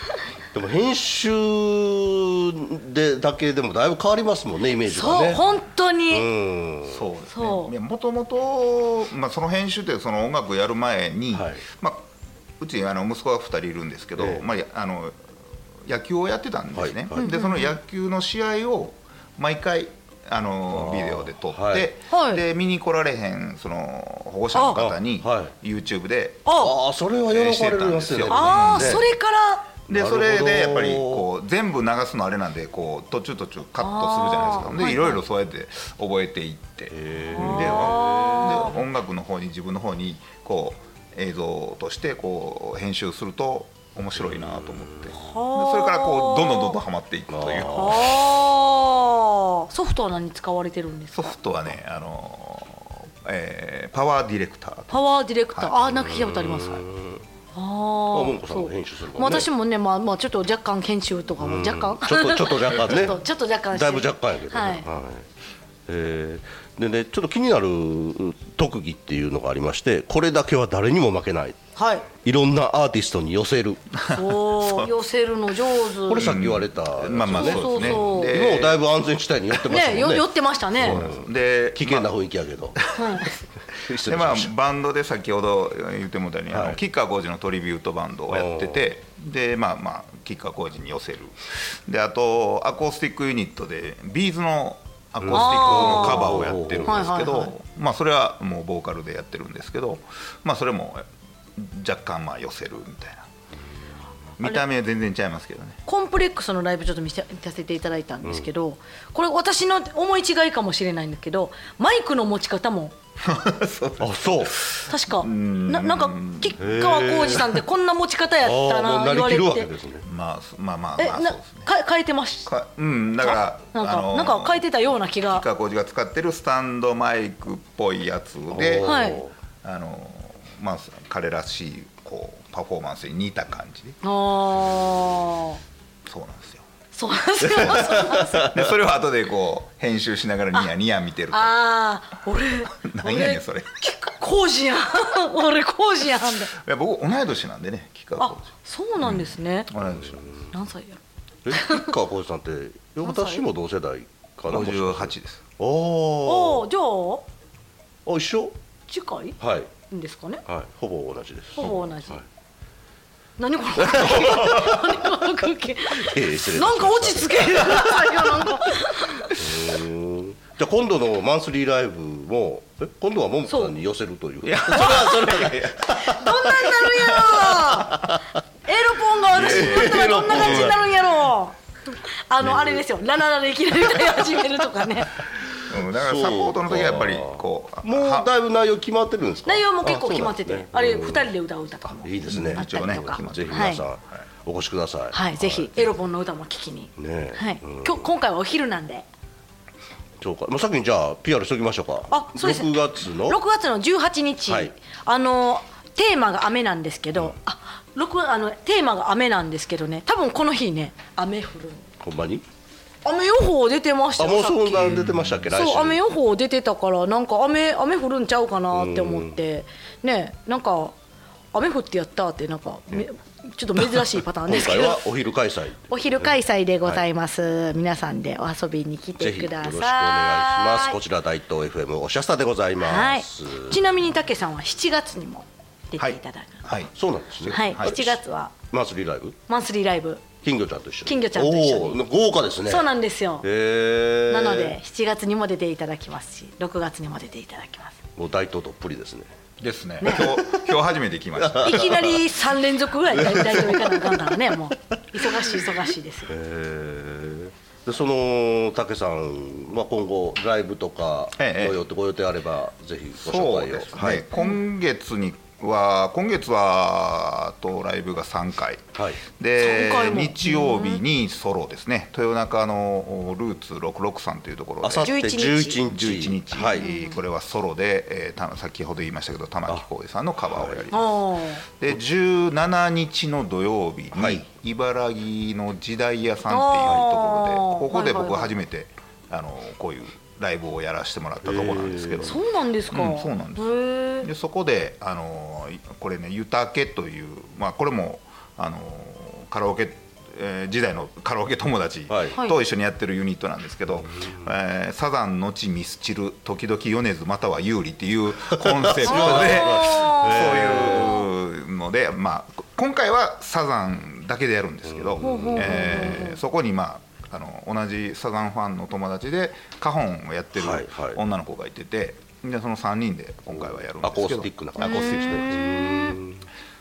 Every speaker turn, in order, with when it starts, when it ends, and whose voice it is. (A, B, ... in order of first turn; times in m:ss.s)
0:00.5-0:05.4 A
0:04.9-0:06.3 B
0:06.1-0:07.0 A
0:06.9-0:12.0 C
0:07.3-0:07.7 B
0:11.3-0:11.6 A
0:12.6-0:15.2 C
0:14.2-0:14.4 A
0:15.8-0:26.5 C
0:16.7-0:17.3 A
0:17.2-0:17.8 B
0:20.7-0:21.9 A
0:22.1-0:22.4 B
0:24.5-0:24.8 B
0:24.7-0:25.5 A
0:26.4-0:26.7 B
0:26.6-0:29.0 A
0:27.2-0:29.1 C
0:28.3-0:29.7 B
0:29.9-0:48.1 C
0:29.9-0:31.3 A
0:33.8-0:35.2 B
0:36.9-0:38.8 A
0:37.3-0:38.7 B
0:44.2-0:45.1 A
0:45.1-0:46.8 B
0:47.3-0:48.2 A
0:47.7-0:51.4 B
0:51.1-0:55.0 C
0:54.9-0:56.8 B
0:55.8-0:57.2 A
0:57.5-1:04.8 B
0:58.1-0:59.5 A
1:01.4-1:05.3 A
1:05.9-1:13.8 A
1:11.8-1:12.1 B
1:14.0-1:14.9 C
1:14.1-1:16.4 B
1:16.0-1:22.8 A
1:16.1-1:18.8 C
1:17.3-1:18.3 B
1:19.7-1:21.0 B
1:20.8-1:22.1 C
1:22.8-1:23.2 C
1:23.0-1:23.3 B
1:23.8-1:24.5 A
1:23.9-1:43.3 C
1:26.5-1:26.8 A
1:28.3-1:28.9 A
1:35.2-1:37.2 A
1:35.3-1:37.5 B
1:44.4-1:45.8 C
1:45.8-1:52.9 B
1:53.2-1:56.7 C
1:54.0-1:54.6 A
1:54.9-1:59.7 B
1:56.6-1:57.6 A
1:58.4-2:00.1 A
2:00.0-2:01.7 C
2:01.0-2:02.5 B
2:02.4-2:04.6 C
2:03.2-2:05.4 B
2:05.2-2:08.9 C
2:08.5-2:09.3 A
2:08.8-2:09.2 B
2:09.6-2:14.0 C
2:14.0-2:15.6 B
2:16.0-2:16.6 C
2:16.9-2:18.5 B
2:17.4-2:18.7 A
2:17.5-2:21.6 C
2:21.3-2:26.5 B
2:22.7-2:23.8 C
2:26.5-2:28.5 C
2:28.2-2:29.7 B
2:29.0-2:30.5 C
2:29.8-2:30.5 A
2:30.5-2:31.9 B
2:31.4-2:36.6 A
2:33.0-2:33.4 B
2:34.5-2:35.4 C
2:36.2-2:37.2 B
2:38.0-2:38.6 A
2:38.9-2:39.4 B
2:39.4-2:39.7 A
2:39.9-2:40.4 B
2:40.4-2:42.2 A
2:41.6-2:42.2 B
2:43.4-2:49.3 B
2:43.8-2:45.0 A
2:45.9-2:48.5 A
2:49.4-2:58.2 A
2:53.5-2:53.8 B
2:54.4-2:56.1 C
2:56.0-3:01.6 B
2:59.3-3:00.9 A
2:59.3-3:00.8 C
3:02.3-3:05.2 B
3:02.4-3:02.8 A
3:04.1-3:04.4 A
3:05.7-3:08.3 C
3:05.9-3:11.3 A
3:09.4-3:13.8 B
3:12.0-3:15.8 A
3:12.2-3:13.9 C
3:15.1-3:19.0 B
3:17.0-3:18.0 A
3:20.2-3:23.4 A
3:22.1-3:31.9 B
3:24.5-3:24.7 A
3:32.0-3:32.4 A
3:33.0-3:41.0 B
3:34.2-3:36.0 A
3:35.0-3:35.2 C
3:38.7-3:39.4 A
3:41.5-3:45.0 B
3:43.9-3:46.3 A
3:45.9-3:51.0 B
3:49.2-3:53.8 A
3:52.8-3:56.6 B
3:56.0-3:58.0 C
3:56.9-3:58.2 A
3:57.5-3:58.5 B
3:58.7-3:59.4 A
3:59.5-4:00.3 B
4:00.4-4:02.9 A
4:01.0-4:02.0 B
4:02.6-4:03.5 B
4:03.4-4:04.8 A
4:04.3-4:08.0 B
4:08.2-4:09.3 A
4:09.6-4:12.0 C
4:10.0-4:10.8 A
4:11.3-4:12.2 A
4:11.6-4:16.3 B
4:13.0-4:14.5 A
4:16.3-4:24.2 A
4:21.4-4:21.8 C
4:23.2-4:28.9 C
4:28.9-4:29.2 A
4:29.4-4:35.1 C
4:29.6-4:31.0 B
4:34.8-4:36.9 A
4:35.0-4:35.8 B
4:35.8-4:41.1 C
4:36.8-4:37.2 B
4:40.5-4:40.8 A
4:40.9-4:41.6 B
4:41.7-5:25.6 C
4:44.1-4:44.4 A
4:46.5-4:48.5 B
4:51.4-4:52.4 A
4:52.2-4:54.3 B
5:02.1-5:02.4 A
5:04.2-5:04.5 A
5:08.5-5:11.3 A
5:09.0-5:11.2 B
5:14.8-5:16.2 A
5:15.2-5:16.4 B
5:20.6-5:21.2 A
5:23.5-5:26.5 A
5:24.8-5:26.2 B